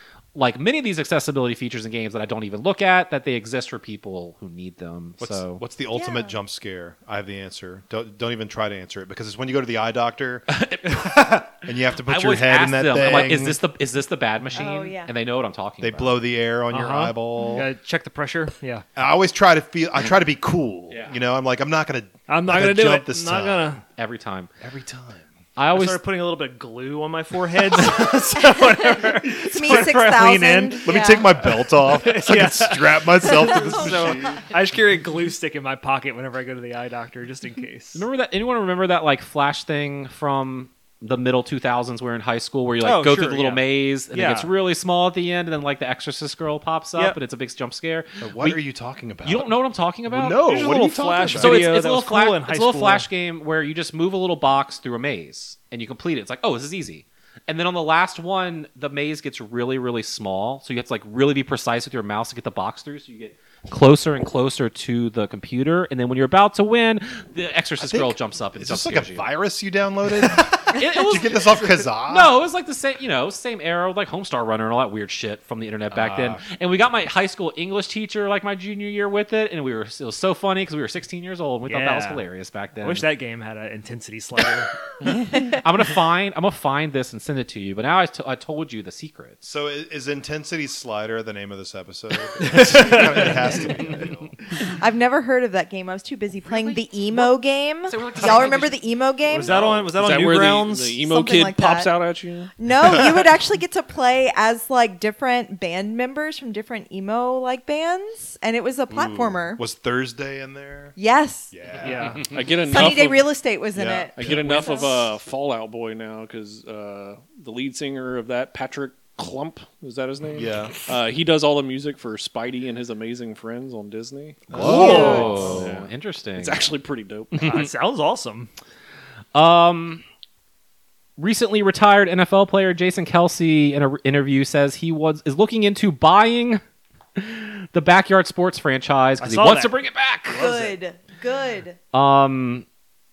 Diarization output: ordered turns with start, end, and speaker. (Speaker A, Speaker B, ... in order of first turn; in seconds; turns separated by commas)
Speaker A: 0.3-5.6, Speaker B: 5.2-10.5, Speaker C: 5.9-6.4, Speaker A: 10.5-16.2, Speaker B: 11.5-13.6, Speaker C: 14.5-15.1, Speaker B: 15.8-17.7, Speaker D: 16.7-18.9, Speaker B: 19.0-23.8, Speaker A: 20.9-21.2, Speaker D: 22.3-23.8, Speaker A: 24.0-24.5, Speaker B: 24.6-25.3, Speaker A: 25.6-26.0, Speaker D: 25.7-38.0, Speaker C: 29.4-31.4, Speaker B: 30.8-34.5, Speaker A: 37.9-48.6, Speaker D: 42.8-44.5, Speaker B: 48.2-51.7, Speaker A: 49.2-50.5, Speaker E: 50.5-51.4, Speaker D: 51.3-53.1, Speaker A: 51.4-69.3, Speaker B: 67.8-72.3, Speaker A: 70.4-83.1, Speaker B: 75.9-76.4, Speaker D: 81.7-82.2, Speaker D: 82.8-84.7, Speaker A: 85.2-89.4, Speaker B: 89.4-94.3, Speaker D: 92.4-93.5, Speaker C: 94.6-99.6, Speaker A: 96.5-97.4, Speaker A: 97.9-98.8, Speaker D: 99.3-101.0, Speaker B: 99.5-99.9, Speaker E: 100.0-102.5, Speaker C: 101.0-102.0, Speaker C: 102.6-109.6, Speaker B: 108.9-111.0, Speaker C: 111.0-111.5, Speaker B: 111.5-112.2, Speaker D: 111.8-112.3, Speaker E: 112.2-113.3, Speaker C: 112.7-115.1, Speaker B: 113.7-114.9, Speaker E: 114.2-127.4, Speaker B: 120.3-120.8, Speaker B: 124.5-125.6, Speaker D: 124.5-125.6, Speaker A: 124.5-126.7, Speaker D: 127.4-128.5, Speaker A: 127.4-127.7, Speaker A: 129.3-130.0, Speaker A: 131.2-136.6, Speaker A: 137.2-140.5, Speaker D: 139.2-139.8, Speaker D: 140.3-140.8, Speaker C: 140.3-141.8, Speaker A: 141.9-142.7